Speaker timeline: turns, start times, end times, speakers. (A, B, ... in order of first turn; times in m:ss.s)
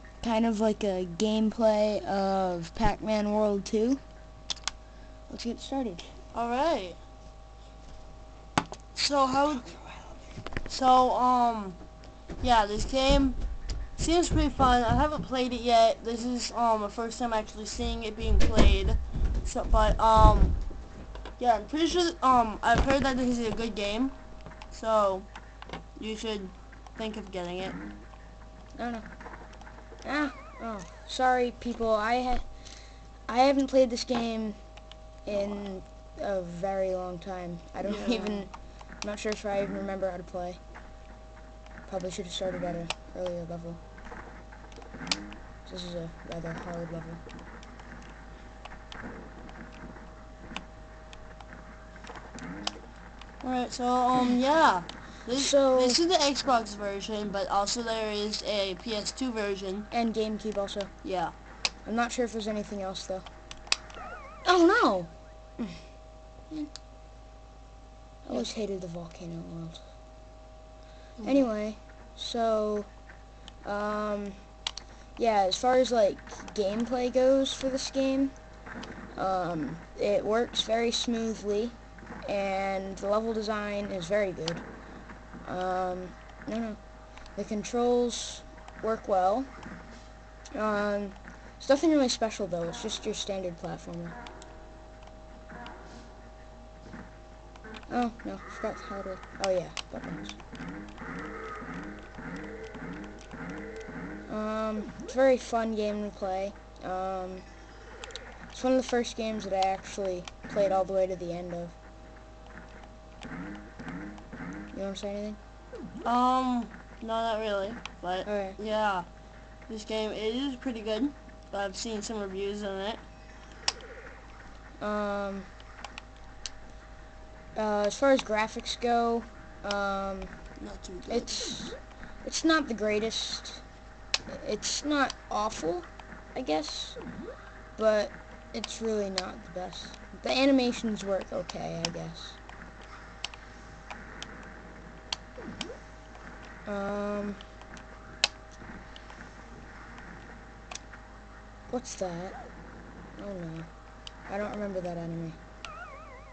0:00.2-0:04.0 A
0:05.3-0:06.1 A
0:06.3-0:07.0 B
0:09.0-0:09.8 B
0:10.7-0:11.8 B
0:12.4-0:13.4 B
0:14.0-0:20.6 B
0:21.4-0:24.2 B
0:24.7-0:25.3 B
0:26.0-0:27.8 B
0:28.8-0:29.0 A
0:30.0-0:32.5 A
0:33.3-0:34.6 A
0:35.3-0:40.6 A
0:37.8-0:38.5 B
0:41.9-0:43.8 A
0:45.7-0:47.2 A
0:53.4-0:59.9 B
0:55.4-0:56.0 A
0:59.9-1:00.9 A
1:01.0-1:01.3 B
1:01.8-1:03.3 A
1:04.4-1:05.8 A
1:08.2-1:09.8 A
1:11.2-1:11.5 B
1:11.2-1:12.9 A
1:13.6-1:14.4 A
1:15.2-1:18.3 A
1:19.2-1:24.6 A
1:25.4-1:26.8 A
1:27.4-1:29.5 A
1:30.5-1:34.2 A
1:37.9-1:40.4 A
1:44.3-1:47.5 A
1:48.5-1:51.8 A
1:54.7-1:55.4 A
1:56.0-1:59.1 B
1:58.3-1:58.6 A
1:59.7-2:03.0 B
2:04.8-2:05.5 A
2:07.6-2:10.3 A
2:10.6-2:11.4 B
2:11.1-2:13.6 A
2:14.3-2:17.0 A
2:17.8-2:22.4 A
2:26.7-2:27.4 A
2:31.7-2:32.4 A
2:33.2-2:33.7 A
2:34.3-2:35.4 A